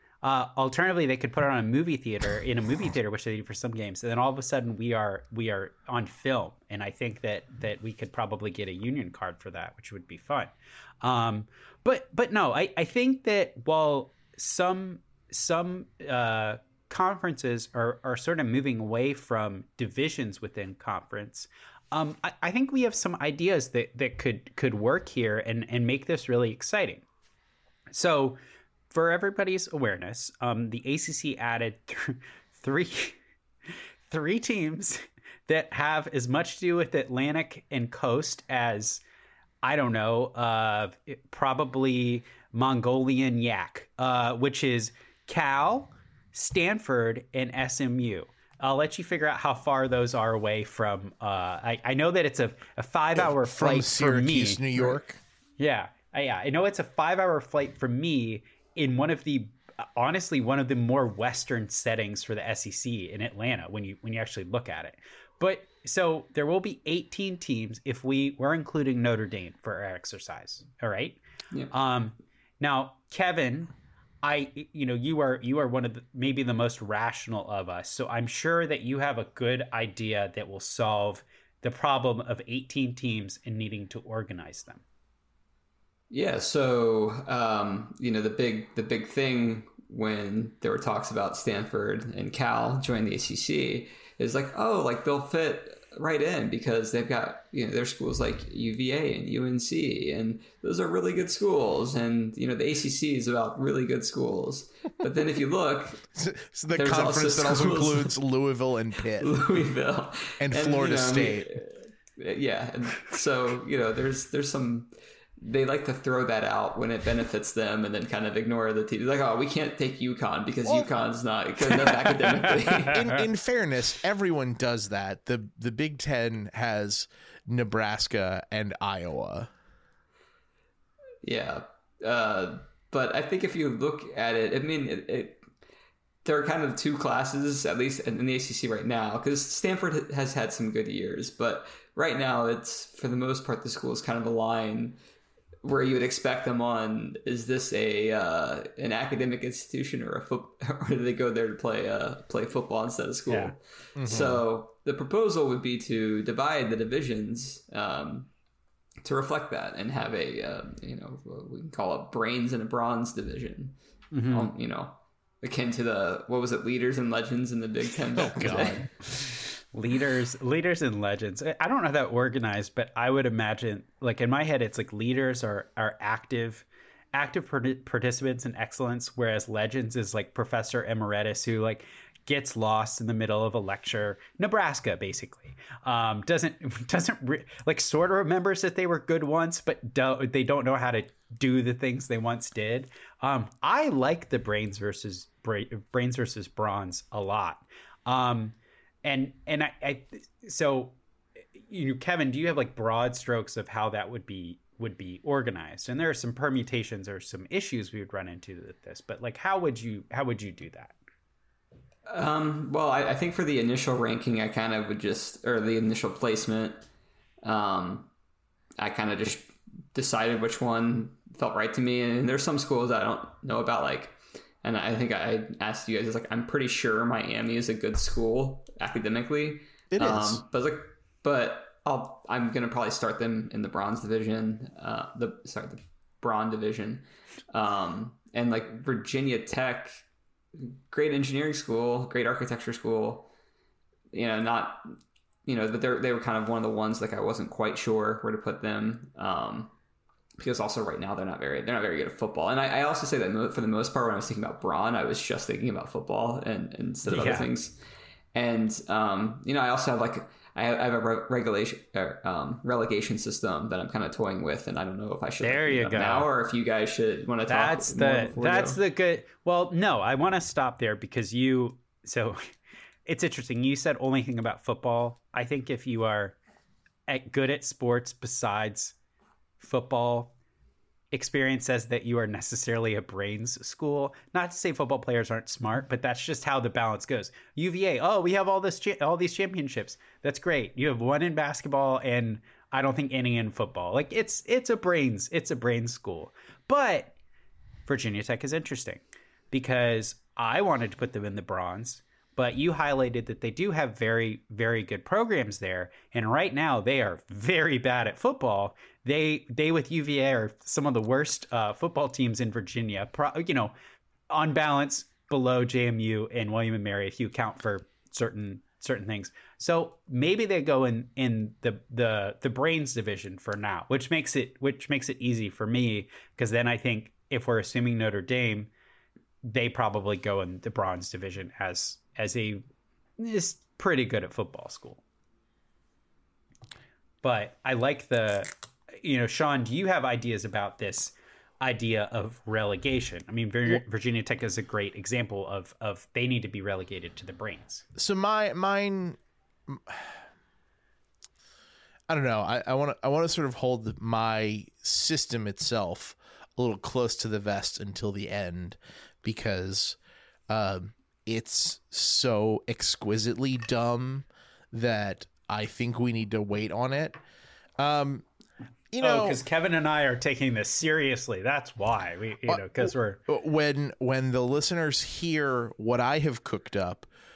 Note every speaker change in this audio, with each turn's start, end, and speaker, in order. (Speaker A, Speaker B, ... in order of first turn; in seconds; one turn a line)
Speaker A: 0.2-27.0
Speaker A: 27.9-28.4
Speaker A: 28.9-33.2
Speaker A: 34.1-39.0
Speaker A: 39.6-55.0
Speaker B: 53.1-55.2
Speaker A: 55.6-71.2
Speaker A: 71.7-73.7
Speaker A: 74.2-84.8
Speaker C: 86.1-106.0
Speaker B: 106.1-109.3
Speaker C: 106.8-108.1
Speaker C: 109.2-123.1
Speaker B: 110.4-111.6
Speaker B: 120.7-120.9
Speaker B: 122.5-129.5
Speaker C: 131.2-135.4
Speaker C: 136.2-145.0
Speaker C: 145.6-158.3
Speaker A: 153.3-153.5
Speaker B: 153.9-154.4
Speaker C: 159.0-163.8
Speaker A: 164.1-164.5
Speaker C: 164.3-168.8
Speaker B: 168.2-168.9
Speaker A: 169.2-200.9
Speaker A: 201.6-210.9
Speaker C: 212.1-216.9
Speaker C: 217.4-218.1
Speaker C: 218.8-240.0
Speaker B: 229.9-230.4
Speaker C: 240.6-243.3
Speaker C: 244.1-244.9
Speaker C: 245.4-249.7
Speaker C: 250.4-257.8
Speaker A: 257.1-257.5
Speaker C: 258.3-268.8
Speaker A: 265.4-266.3
Speaker A: 267.5-272.5
Speaker A: 273.1-276.4
Speaker A: 277.1-278.9
Speaker A: 279.6-280.3
Speaker A: 281.1-297.1
Speaker A: 297.9-313.7
Speaker A: 314.3-328.7
Speaker A: 329.4-332.6
Speaker A: 333.2-335.0
Speaker A: 337.2-347.8
Speaker B: 347.9-350.2
Speaker B: 352.1-360.0
Speaker B: 360.5-367.2
Speaker B: 367.8-368.2
Speaker B: 368.9-369.4
Speaker A: 369.0-373.2
Speaker B: 372.4-377.1